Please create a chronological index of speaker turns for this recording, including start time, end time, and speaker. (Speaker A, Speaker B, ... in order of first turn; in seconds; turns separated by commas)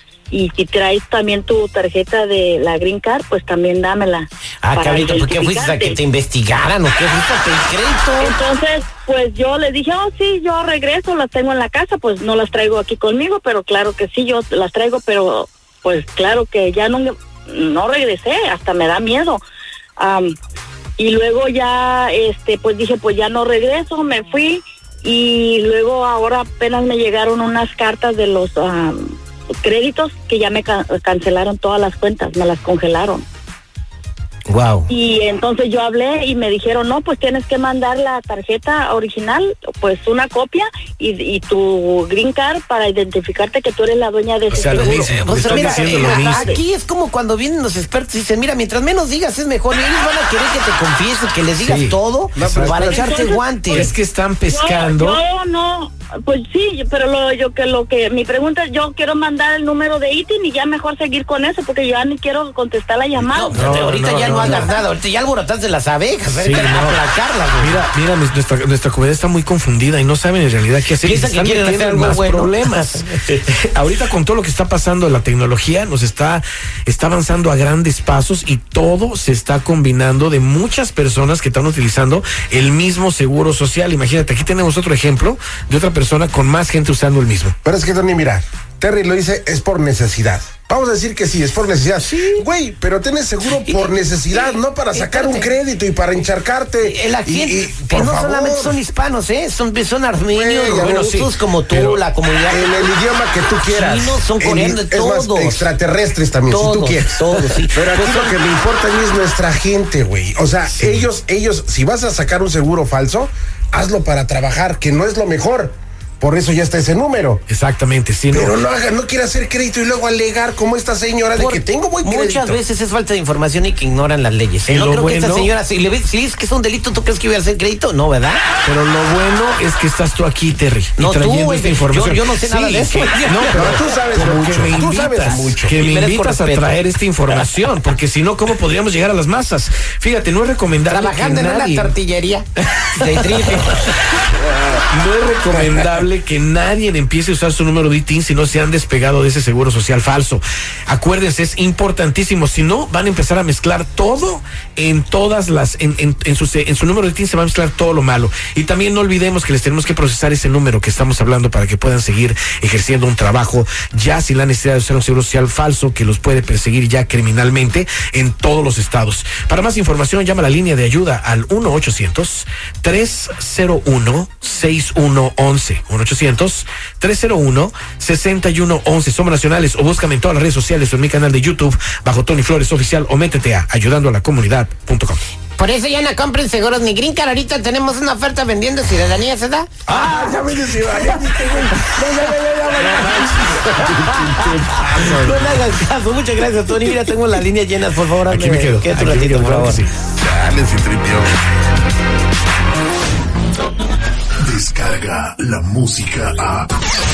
Speaker A: 0.3-6.0, Speaker B: 4.6-8.4, Speaker A: 8.2-19.4, Speaker A: 20.0-20.3, Speaker A: 21.0-33.2, Speaker B: 34.5-34.9, Speaker A: 34.9-46.6, Speaker C: 44.5-46.5, Speaker B: 44.7-53.9, Speaker C: 51.6-52.8, Speaker D: 52.3-53.2, Speaker A: 52.9-53.9, Speaker C: 53.7-55.2, Speaker A: 54.5-64.8, Speaker B: 63.3-67.8, Speaker C: 63.4-64.8, Speaker C: 66.3-67.0, Speaker C: 67.6-87.5, Speaker B: 71.0-73.2, Speaker D: 87.6-98.8, Speaker B: 92.0-92.5, Speaker B: 93.6-95.5, Speaker B: 96.8-102.9, Speaker D: 100.3-117.4, Speaker B: 103.7-105.7, Speaker B: 106.5-108.4, Speaker C: 110.6-111.1, Speaker C: 117.5-118.6, Speaker D: 118.3-122.5, Speaker B: 121.3-128.4, Speaker C: 124.7-125.5, Speaker C: 128.6-141.9, Speaker B: 131.0-133.7, Speaker D: 133.5-135.7, Speaker B: 135.7-136.8, Speaker B: 140.9-143.9, Speaker C: 142.8-143.7, Speaker C: 144.9-185.2, Speaker B: 185.6-190.4, Speaker D: 189.9-192.0, Speaker B: 191.1-199.8, Speaker D: 192.8-195.4, Speaker C: 192.8-193.3, Speaker C: 198.3-199.9, Speaker D: 200.1-201.3, Speaker E: 204.4-206.7